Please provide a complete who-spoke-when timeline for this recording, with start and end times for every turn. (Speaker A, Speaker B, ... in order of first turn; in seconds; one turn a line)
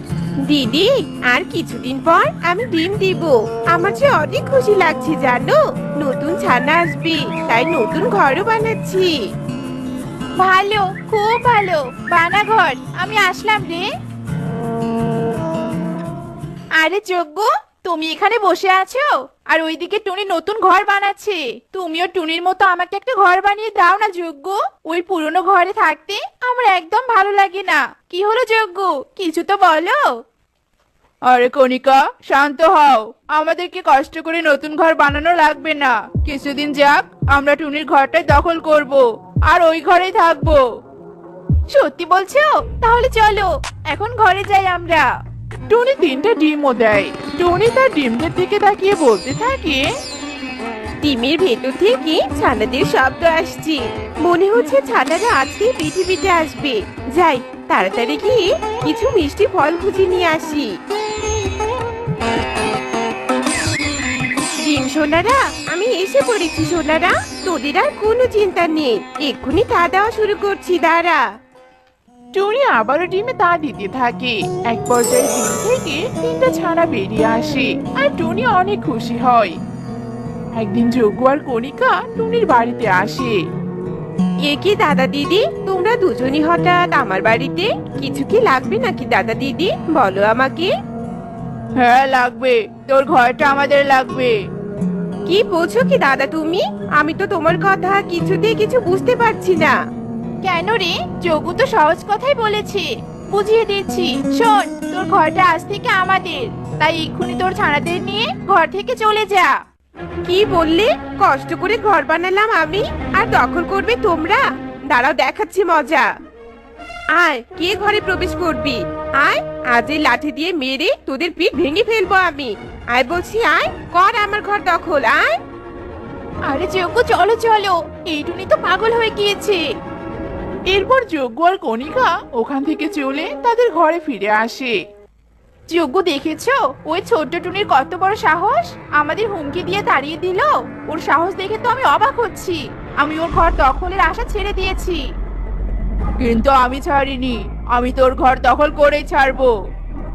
Speaker A: 0.5-9.1
Speaker B: 10.4-13.8
Speaker B: 16.8-30.0
Speaker B: 31.3-40.6
Speaker B: 41.7-45.0
Speaker C: 45.7-49.8
Speaker A: 51.0-60.7
Speaker A: 64.6-71.2
Speaker C: 72.3-79.5
Speaker C: 80.6-83.3
Speaker A: 84.4-90.7
Speaker B: 91.8-94.3
Speaker A: 95.3-99.8
Speaker B: 100.4-109.5
Speaker A: 110.2-116.1
Speaker A: 117.1-125.3
Speaker B: 126.5-129.6
Speaker C: 130.7-134.7
Speaker B: 135.7-145.0
Speaker B: 146.2-149.5